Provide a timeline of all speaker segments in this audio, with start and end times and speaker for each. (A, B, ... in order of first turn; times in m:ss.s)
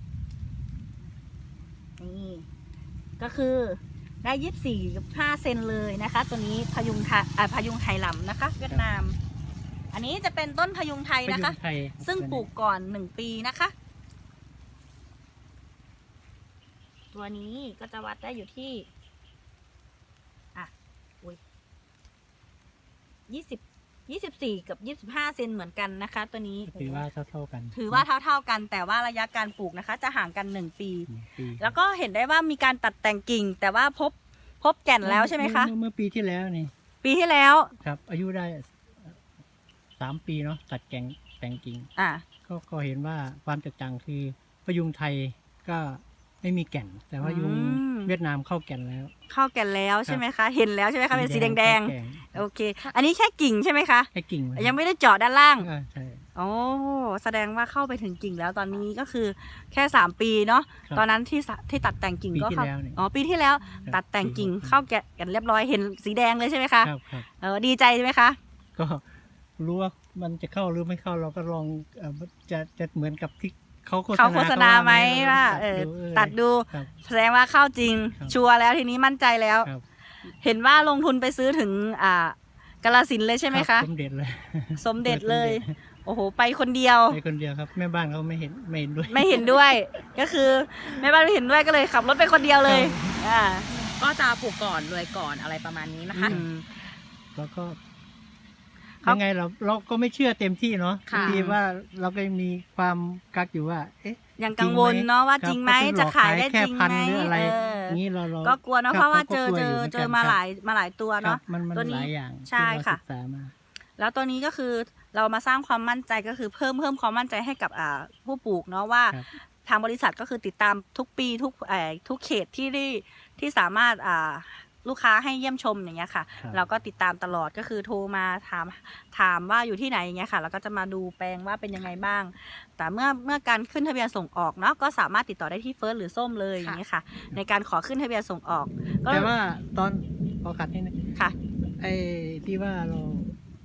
0:02.0-0:02.4 A
0:03.2-0:09.2 A
0:09.9-0:13.7 A
0:11.2-0:12.5 B
0:17.1-0:18.9 A
0:23.3-0:27.0 A
0:26.7-0:28.1 B
0:27.7-0:35.7 A
0:31.1-0:31.7 B
0:35.0-0:36.7 B
0:37.0-0:37.7 A
0:37.8-0:39.2 B
0:40.0-0:41.9 B
0:42.0-0:42.2 A
0:42.4-0:49.1 B
0:47.2-0:48.1 A
0:49.3-0:55.7 A
0:51.1-0:52.4 B
0:54.1-0:54.7 B
0:55.6-0:56.2 B
0:56.3-1:08.4 A
1:02.3-1:03.0 B
1:03.6-1:03.9 C
1:03.8-1:04.8 B
1:06.8-1:07.3 B
1:08.8-1:09.0 B
1:09.6-1:16.9 B
1:14.1-1:19.7 A
1:20.3-1:23.9 A
1:23.5-1:25.7 B
1:24.8-1:27.2 A
1:27.1-1:29.8 B
1:29.1-1:33.7 A
1:32.6-1:33.2 B
1:33.7-1:36.4 C
1:36.1-1:36.7 A
1:37.3-1:37.8 B
1:39.0-1:50.4 B
1:41.1-1:41.4 C
1:41.1-1:41.6 A
1:44.4-1:53.0 A
1:47.3-1:47.8 C
1:51.2-1:53.5 B
1:54.0-2:19.3 A
2:06.4-2:06.7 B
2:19.1-2:21.0 B
2:21.8-2:23.3 B